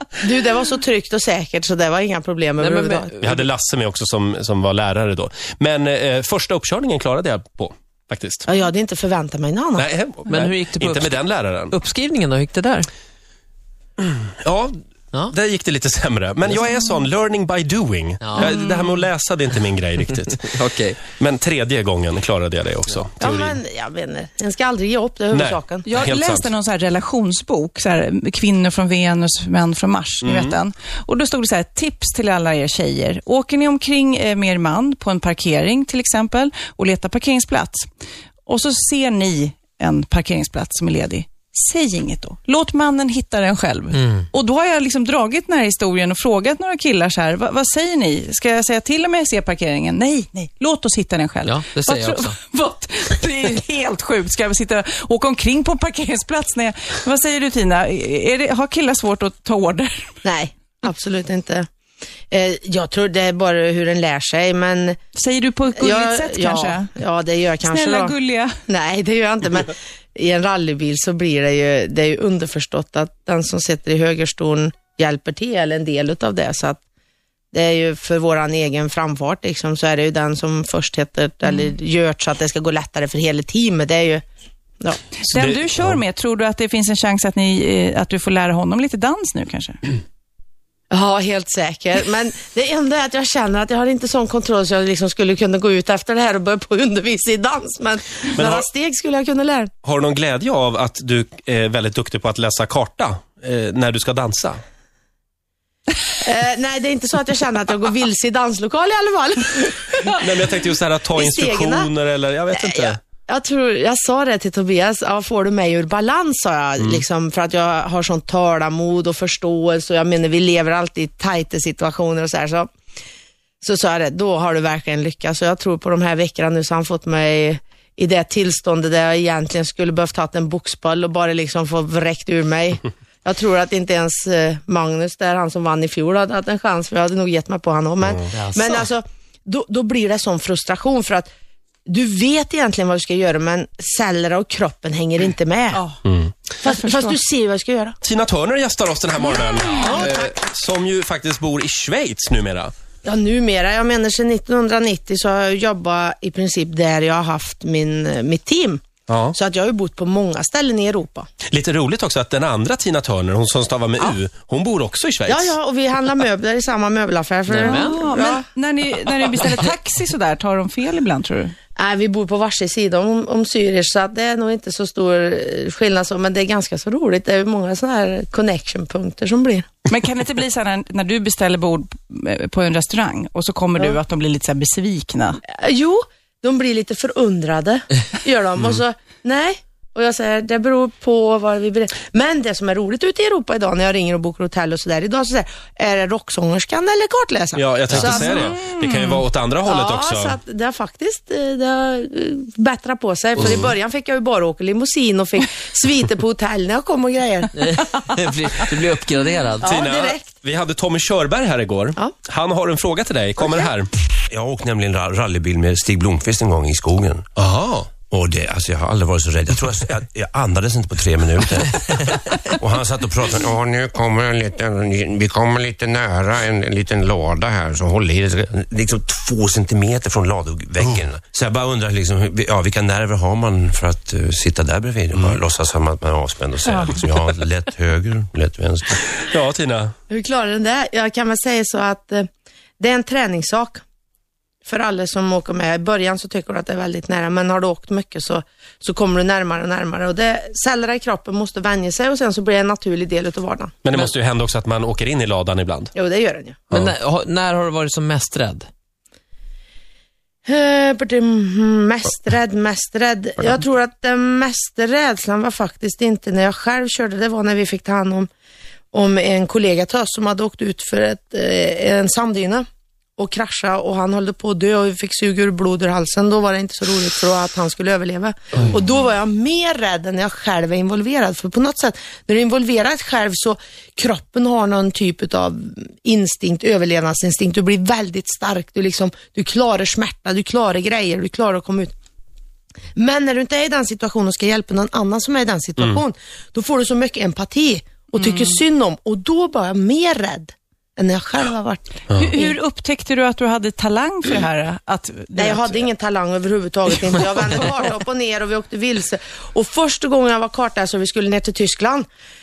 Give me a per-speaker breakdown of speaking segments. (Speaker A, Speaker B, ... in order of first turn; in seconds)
Speaker A: 0.2-3.1, 8.5-9.8, 23.2-25.9, 60.2-61.7, 62.3-65.0, 65.8-76.8, 77.5-84.2, 90.9-99.7, 106.2-110.4, 111.1-111.9, 112.5-122.7, 123.6-141.3, 141.8-145.8, 146.6-148.0, 149.8-150.3, 153.0-158.8, 159.3-161.3, 165.2-168.4, 171.8-179.7, 185.5-198.5, 199.6-207.7, 209.6-210.3, 236.7-237.0, 240.1-242.3, 242.8-243.8, 244.6-253.8, 255.9-256.6, 260.4-268.3, 268.9-272.6, 273.2-291.9, 292.9-302.5, 305.4-312.1
Speaker B: 2.6-3.4, 10.3-12.9, 18.2-18.5, 20.4-21.0, 43.9-44.2, 51.4-52.3, 138.3-138.9, 167.5-168.0, 207.5-209.7, 256.7-258.7
Speaker C: 3.2-8.4, 9.8-11.8, 14.0-20.4, 21.1-23.6, 25.3-26.5, 30.2-30.6, 85.3-86.0, 98.3-98.7, 99.8-104.6, 110.2-113.0, 146.0-146.3, 148.0-152.7, 159.1-159.3, 161.5-165.5, 197.6-200.4, 203.4-203.7, 209.6-213.9, 217.4-217.9, 239.3-239.9, 253.8-255.9
Speaker D: 18.4-19.0, 25.8-37.9, 38.5-60.1, 65.1-66.9, 67.6-68.5, 85.2-89.9, 145.7-146.0, 146.6-147.1, 149.4-149.9, 167.7-171.5, 179.8-185.4, 198.0-199.2, 298.1-298.6, 302.1-305.8
Speaker E: 214.3-217.2, 218.0-239.0